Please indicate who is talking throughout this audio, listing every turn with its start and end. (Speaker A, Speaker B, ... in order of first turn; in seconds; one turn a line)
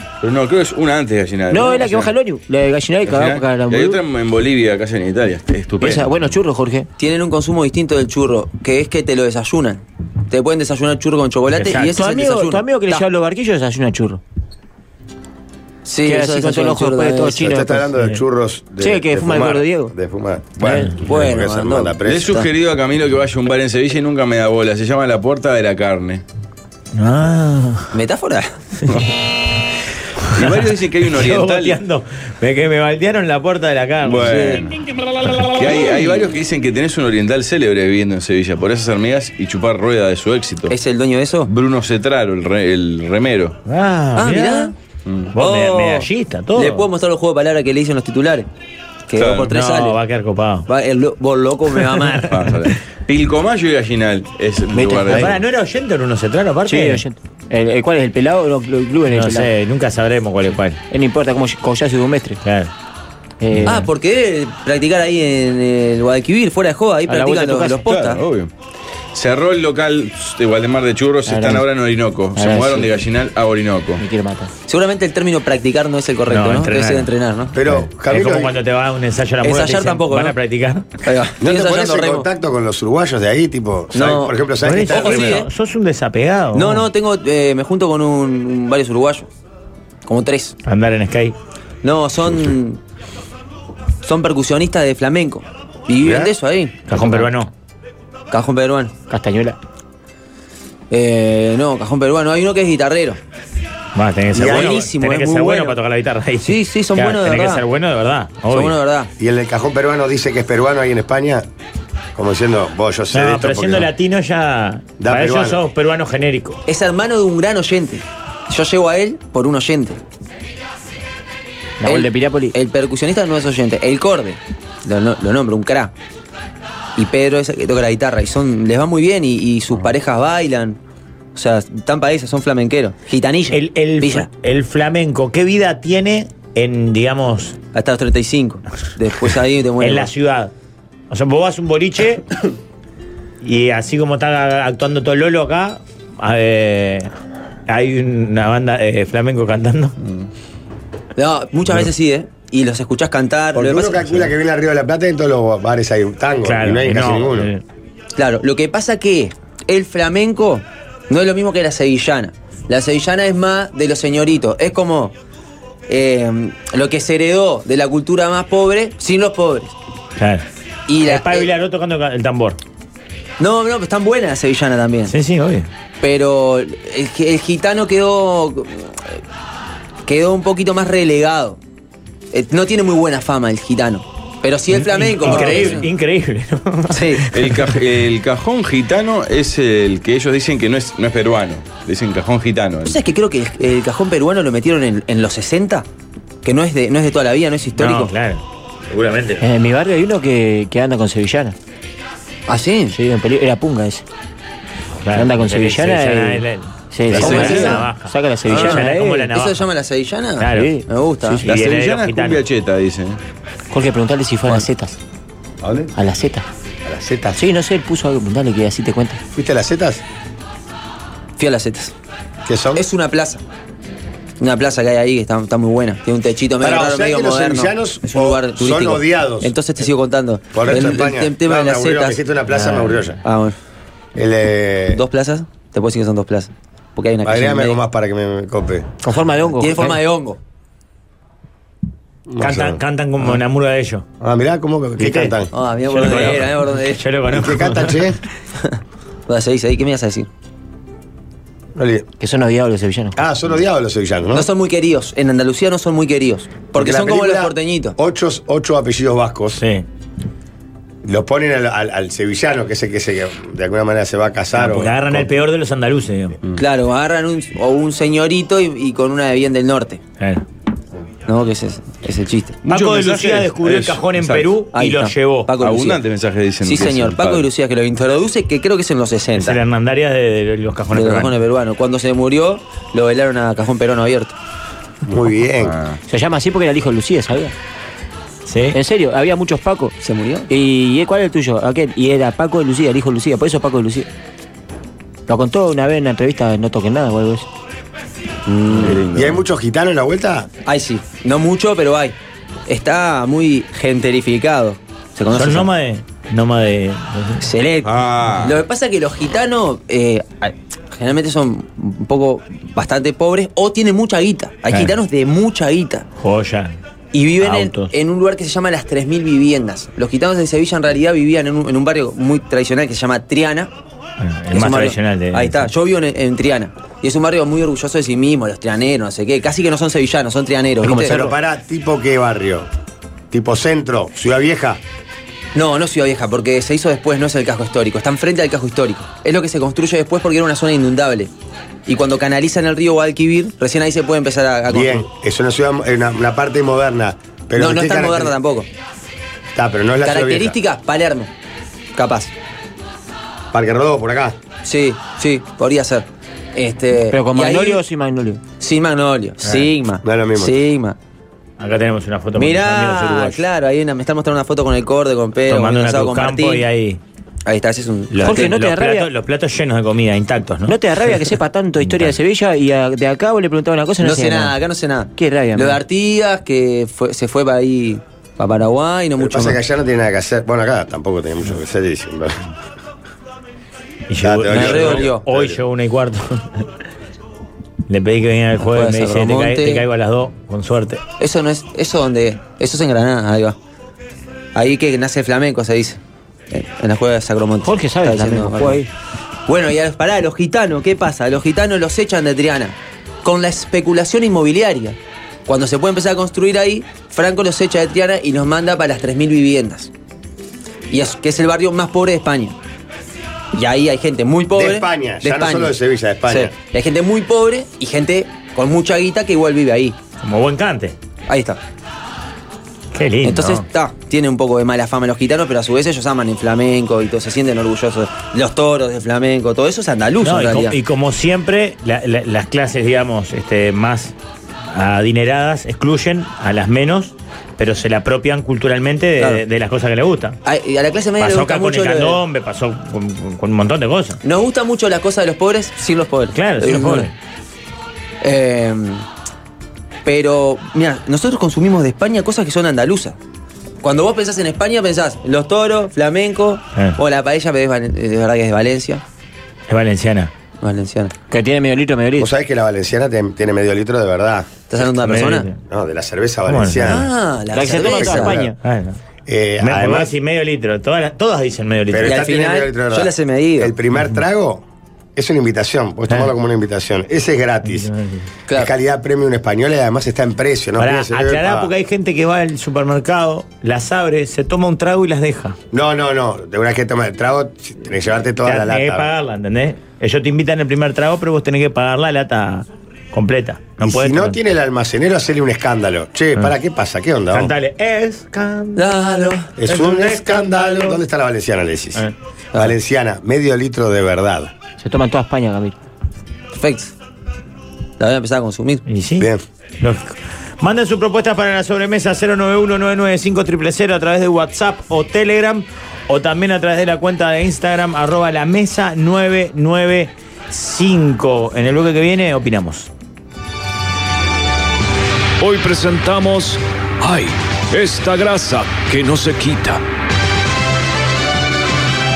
Speaker A: 0.2-2.1
Speaker B: 1.5-4.0
Speaker A: 3.0-6.2
Speaker B: 5.8-6.9
Speaker C: 7.0-13.0
Speaker D: 11.5-12.0
Speaker B: 11.9-14.2
Speaker C: 15.8-17.6
Speaker B: 16.1-17.9
Speaker E: 17.4-22.5
Speaker B: 18.8-19.9
Speaker B: 20.6-20.9
Speaker C: 21.0-22.4
Speaker A: 22.0-26.2
Speaker D: 26.9-27.9
Speaker C: 27.9-28.6
Speaker D: 30.3-34.6
Speaker A: 30.3-31.8
Speaker A: 34.0-34.7
Speaker A: 35.4-40.7
Speaker C: 40.7-41.5
Speaker A: 41.5-43.6
Speaker D: 43.6-44.7
Speaker C: 44.1-44.7
Speaker A: 45.0-45.3
Speaker D: 45.3-46.9
Speaker C: 45.4-48.5
Speaker C: 49.1-50.0
Speaker A: 49.2-49.5
Speaker D: 49.4-50.6
Speaker C: 50.7-52.4
Speaker A: 52.2-55.4
Speaker B: 54.7-55.3
Speaker D: 55.1-57.0
Speaker B: 56.7-59.5
Speaker D: 59.1-60.8
Speaker B: 60.9-62.4
Speaker D: 62.4-62.7
Speaker B: 63.4-63.9
Speaker C: 63.6-68.2
Speaker B: 67.1-67.8
Speaker A: 67.8-68.5
Speaker A: 69.1-74.0
Speaker B: 71.2-71.7
Speaker B: 72.3-72.9
Speaker B: 74.0-74.5
Speaker C: 74.7-77.6
Speaker D: 76.3-77.1
Speaker E: 77.5-78.6
Speaker D: 78.1-80.9
Speaker C: 79.4-80.3
Speaker C: 81.0-82.3
Speaker E: 81.4-85.5
Speaker C: 83.9-85.5
Speaker D: 84.6-86.9
Speaker C: 86.5-89.3
Speaker C: 90.0-90.5
Speaker D: 90.7-91.3
Speaker C: 91.8-92.8
Speaker C: 94.0-97.3
Speaker E: 96.0-96.3
Speaker D: 96.9-97.5
Speaker C: 98.3-98.9
Speaker B: 99.1-99.6
Speaker C: 100.9-103.2
Speaker D: 103.9-108.8
Speaker E: 104.3-104.8
Speaker C: 104.3-105.8
Speaker C: 106.4-107.6
Speaker C: 108.5-109.1
Speaker E: 109.2-111.5
Speaker E: 112.1-113.9
Speaker D: 113.1-116.6
Speaker E: 115.0-115.6
Speaker C: 116.7-120.0
Speaker B: 121.8-122.5
Speaker C: 121.8-125.9
Speaker C: 127.0-130.8
Speaker C: 131.3-134.3
Speaker D: 133.5-137.6
Speaker C: 137.7-140.1
Speaker D: 139.8-140.5
Speaker D: 141.1-142.3
Speaker D: 143.4-147.1
Speaker D: 147.7-149.9
Speaker C: 151.2-154.3
Speaker E: 153.5-157.5
Speaker D: 156.4-157.6
Speaker C: 158.2-165.1
Speaker C: 165.9-169.7
Speaker D: 170.2-170.4
Speaker C: 170.9-171.5
Speaker D: 171.0-172.6
Speaker C: 173.4-175.1
Speaker D: 175.1-175.7
Speaker C: 176.0-179.2
Speaker C: 180.1-181.6
Speaker C: 182.3-185.9
Speaker D: 184.7-187.8
Speaker C: 186.9-187.3
Speaker A: 187.3-193.0
Speaker C: 192.8-195.8
Speaker C: 196.4-198.1
Speaker D: 197.8-199.4
Speaker B: 199.4-201.6
Speaker C: 202.5-202.9
Speaker B: 202.9-204.0
Speaker D: 205.0-209.6
Speaker B: 205.1-209.3
Speaker A: 207.1-207.7
Speaker C: 207.1-207.8
Speaker C: 208.5-211.4
Speaker D: 210.4-210.7
Speaker B: 210.5-211.4
Speaker D: 211.4-212.4
Speaker A: 211.4-213.2
Speaker B: 213.7-215.0
Speaker E: 215.6-215.9
Speaker B: 215.9-216.4
Speaker E: 216.8-217.4
Speaker B: 217.3-219.2
Speaker E: 219.3-220.0
Speaker C: 221.4-221.9
Speaker E: 222.4-222.8
Speaker C: 222.7-223.4
Speaker C: 224.4-232.2
Speaker E: 226.6-229.5
Speaker E: 230.5-233.2
Speaker D: 232.7-233.1
Speaker C: 233.2-233.6
Speaker E: 234.1-235.0
Speaker C: 234.9-237.8
Speaker E: 237.2-238.9
Speaker B: 239.0-240.0
Speaker C: 239.6-240.4
Speaker E: 242.3-242.8
Speaker D: 242.4-244.0
Speaker E: 244.2-245.5
Speaker C: 245.5-247.0
Speaker D: 245.9-248.1
Speaker E: 247.3-248.2
Speaker C: 249.3-250.3
Speaker E: 251.8-252.1
Speaker B: 252.2-253.2
Speaker E: 253.2-254.5
Speaker C: 254.3-257.9
Speaker E: 256.7-259.6
Speaker D: 259.6-259.8
Speaker E: 261.0-265.3
Speaker D: 264.5-266.4
Speaker C: 266.6-270.0
Speaker C: 271.3-272.6
Speaker A: 272.6-274.5
Speaker D: 272.7-275.5
Speaker C: 274.7-276.0
Speaker A: 275.6-277.5
Speaker C: 276.6-279.6
Speaker D: 279.4-281.3
Speaker C: 280.9-284.4
Speaker E: 285.1-285.8
Speaker A: 285.6-286.0
Speaker B: 286.1-287.5
Speaker D: 288.4-288.8
Speaker B: 288.7-289.9
Speaker C: 290.0-290.5
Speaker B: 290.5-294.1
Speaker B: 295.3-297.5
Speaker C: 298.5-299.0
Speaker A: 298.8-299.4
Speaker E: 298.8-300.5
Speaker C: 300.6-302.1
Speaker C: 302.7-305.7
Speaker D: 305.3-307.4
Speaker C: 307.4-316.1
Speaker A: 307.8-308.6
Speaker D: 316.2-316.8
Speaker C: 317.1-323.7
Speaker D: 317.4-317.9
Speaker D: 324.2-325.7
Speaker C: 324.5-331.3
Speaker E: 330.8-332.7
Speaker E: 333.3-334.8
Speaker C: 335.5-341.3
Speaker C: 341.9-345.0
Speaker E: 344.7-348.4
Speaker C: 347.6-348.7
Speaker E: 349.5-350.6
Speaker C: 350.0-351.3
Speaker C: 351.9-352.3
Speaker E: 353.5-354.4
Speaker C: 354.6-357.8
Speaker B: 357.1-358.4
Speaker C: 358.6-361.0
Speaker D: 359.4-359.7
Speaker E: 360.0-360.5
Speaker D: 361.6-363.4
Speaker C: 362.4-366.6
Speaker D: 365.5-367.0
Speaker C: 367.4-368.5
Speaker D: 368.1-371.2
Speaker B: 368.2-369.1
Speaker B: 370.7-374.5
Speaker D: 371.8-372.1
Speaker C: 374.0-379.6
Speaker B: 375.1-375.8
Speaker E: 379.2-382.4
Speaker D: 384.1-386.6
Speaker E: 384.2-385.6
Speaker C: 384.5-385.2
Speaker D: 387.9-391.0
Speaker C: 388.6-389.8
Speaker C: 391.2-393.6
Speaker C: 394.5-396.0
Speaker C: 396.5-398.8
Speaker B: 397.6-398.9
Speaker C: 399.5-409.9
Speaker C: 410.9-412.6
Speaker C: 413.5-415.7
Speaker E: 414.5-416.5
Speaker C: 416.3-419.9
Speaker D: 420.2-420.9
Speaker C: 421.3-421.6
Speaker D: 422.9-423.6
Speaker C: 423.2-430.8
Speaker D: 430.2-434.1
Speaker D: 434.7-440.4
Speaker C: 440.4-442.2
Speaker D: 441.2-444.2
Speaker C: 444.2-447.1
Speaker D: 446.3-447.1
Speaker C: 448.2-449.0
Speaker C: 450.0-453.2
Speaker C: 453.8-459.0
Speaker D: 459.7-460.3
Speaker C: 460.6-461.1
Speaker B: 461.3-462.3
Speaker E: 462.2-464.5
Speaker C: 464.7-465.5
Speaker D: 464.8-465.5
Speaker E: 465.7-467.1
Speaker D: 466.5-467.1
Speaker C: 466.8-468.4
Speaker B: 467.5-468.6
Speaker E: 467.8-468.5
Speaker D: 468.6-469.0
Speaker E: 469.3-470.1
Speaker D: 469.6-472.2
Speaker E: 471.9-474.6
Speaker C: 472.0-473.7
Speaker E: 475.1-477.9
Speaker D: 477.6-478.2
Speaker E: 478.5-481.7
Speaker D: 480.8-485.6
Speaker E: 485.7-489.1
Speaker D: 488.4-494.4
Speaker E: 493.8-497.5
Speaker D: 497.3-498.9
Speaker C: 498.8-499.5
Speaker E: 499.6-504.5
Speaker D: 499.6-501.0
Speaker B: 504.8-505.8
Speaker C: 506.5-506.9
Speaker C: 508.0-508.8
Speaker D: 508.9-509.3
Speaker D: 509.8-522.9
Speaker F: 525.4-529.8